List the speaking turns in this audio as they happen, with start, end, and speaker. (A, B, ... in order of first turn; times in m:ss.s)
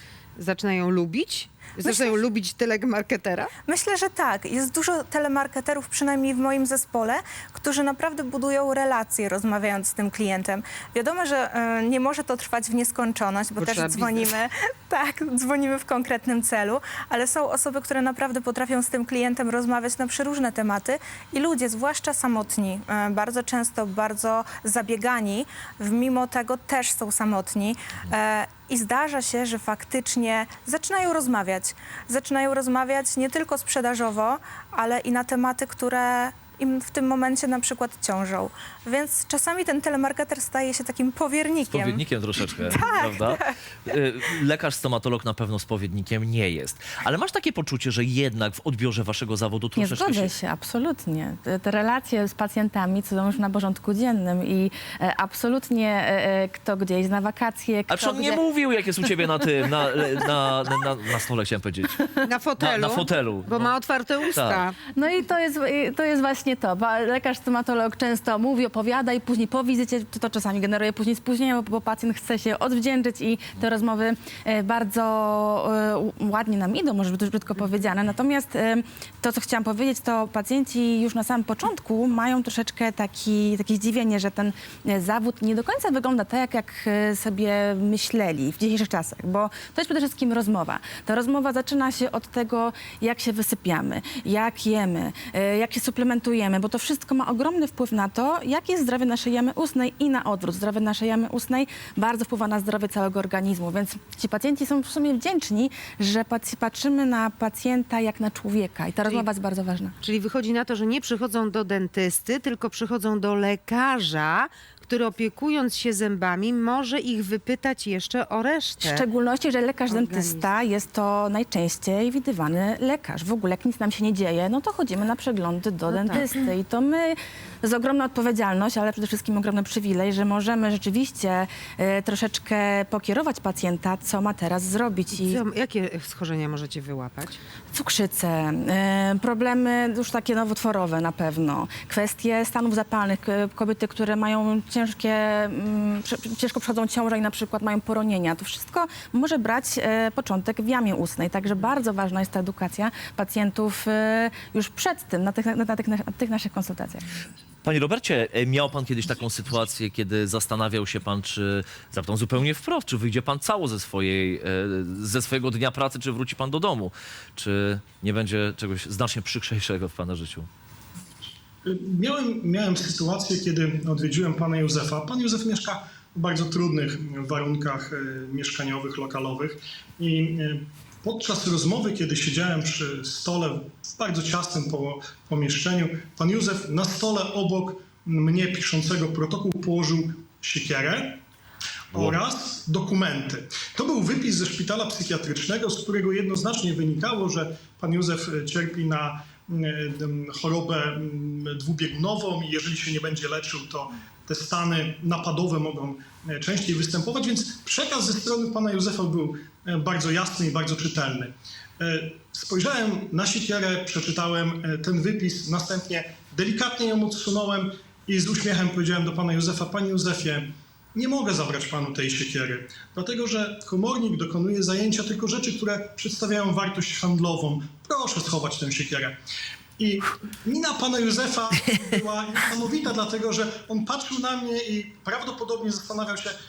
0:00.4-0:03.5 A
0:01.8-0:02.2 B
0:03.6-0:43.4 B
0:13.6-0:14.3 A
0:41.6-0:50.3 C
0:49.8-0:58.4 D
0:57.9-1:02.0 C
1:02.2-1:04.8 A
1:02.6-1:03.7 C
1:04.3-1:04.6 C
1:04.9-1:49.9 D
1:50.0-1:59.0 A
1:58.8-2:15.4 D
1:59.9-2:00.5 A
2:05.9-2:06.3 A
2:15.1-2:17.4 A
2:17.7-2:37.0 D
2:37.6-2:50.5 C
2:51.6-3:11.2 E
3:11.9-3:49.2 E
3:49.8-3:56.3 E